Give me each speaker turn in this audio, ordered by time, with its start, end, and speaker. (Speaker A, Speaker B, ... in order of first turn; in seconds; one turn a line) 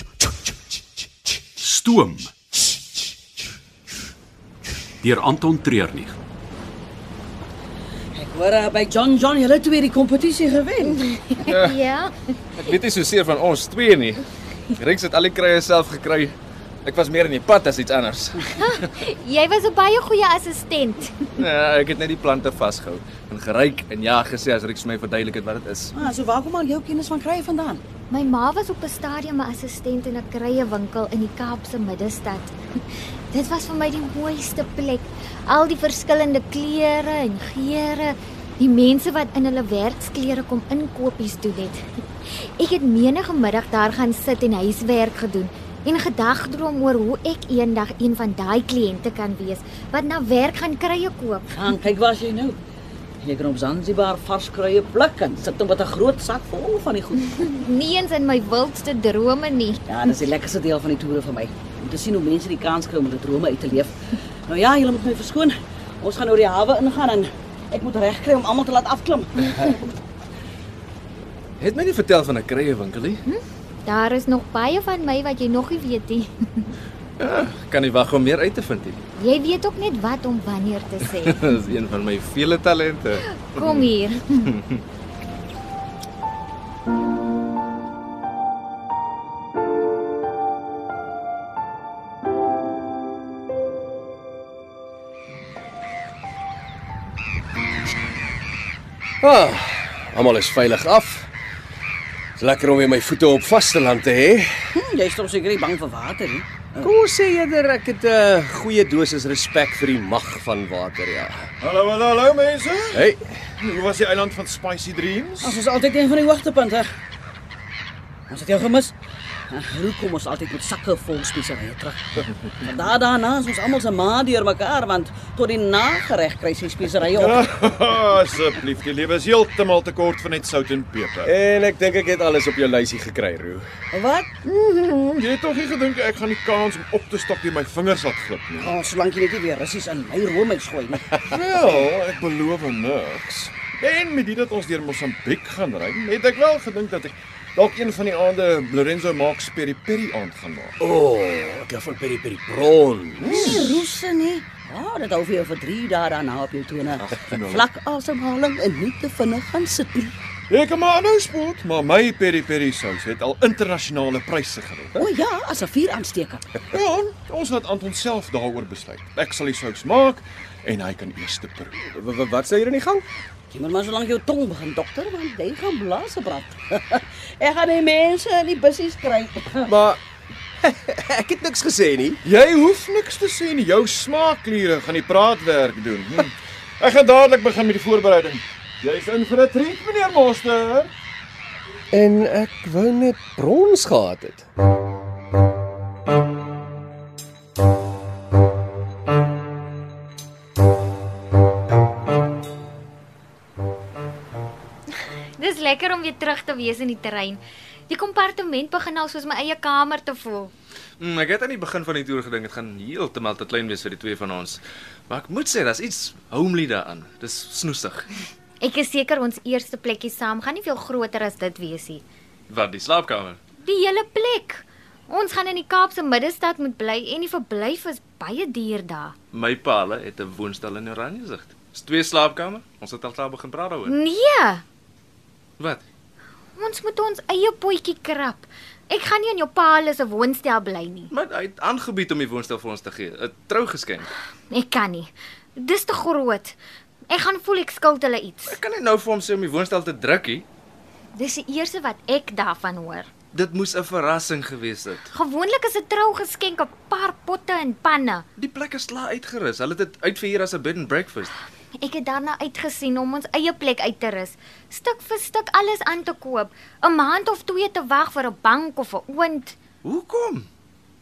Speaker A: 1.6-2.3
Speaker A: 5.0-6.2
Speaker B: 8.1-11.1
Speaker C: 10.8-12.2
Speaker D: 11.5-11.8
Speaker D: 12.6-14.2
Speaker D: 14.8-18.9
Speaker C: 18.6-21.2
Speaker D: 21.4-25.9
Speaker B: 25.9-27.8
Speaker C: 28.1-51.6
Speaker B: 51.5-52.6
Speaker B: 53.2-57.5
Speaker C: 57.3-59.8
Speaker B: 59.9-69.8
Speaker D: 71.6-73.2
Speaker C: 73.2-76.7
Speaker D: 77.2-79.0
Speaker C: 79.2-81.4
Speaker D: 81.1-83.9
Speaker C: 83.3-84.5
Speaker D: 84.5-84.8
Speaker E: 99.2-101.3
Speaker E: 102.4-104.5
Speaker B: 104.7-106.9
Speaker E: 106.8-111.5
Speaker F: 111.6-113.0
Speaker E: 112.9-113.2
Speaker F: 113.6-115.6
Speaker B: 115.4-116.9
Speaker B: 118.3-118.9
Speaker B: 119.5-127.5
Speaker F: 127.1-131.3
Speaker E: 131.2-133.7
Speaker B: 133.9-134.3
Speaker F: 134.4-138.7
Speaker B: 138.6-141.2
Speaker F: 141.2-150.8
Speaker E: 150.8-153.6
Speaker B: 153.2-160.1
Speaker F: 153.2-153.8
Speaker F: 157.0-157.7
Speaker F: 160.5-164.9
Speaker B: 164.9-166.5
Speaker F: 166.7-171.8
Speaker E: 171.8-173.0
Speaker B: 173.5-179.7
Speaker E: 179.7-180.0
Speaker E: 180.6-182.2
Speaker F: 182.2-190.9
Speaker E: 191.9-194.4
Speaker C: 205.4-210.5
Speaker D: 211.0-218.1
Speaker C: 218.6-222.0
Speaker D: 222.5-223.4
Speaker C: 223.6-229.1
Speaker D: 229.3-233.9
Speaker C: 233.8-234.6
Speaker C: 236.6-241.1
Speaker D: 241.1-244.1
Speaker C: 244.5-246.6
Speaker C: 247.1-248.6
Speaker D: 248.5-250.4
Speaker C: 251.2-253.1
Speaker D: 253.3-255.0
Speaker C: 255.1-258.2
Speaker D: 258.4-261.3
Speaker C: 261.8-269.6
Speaker D: 269.8-270.5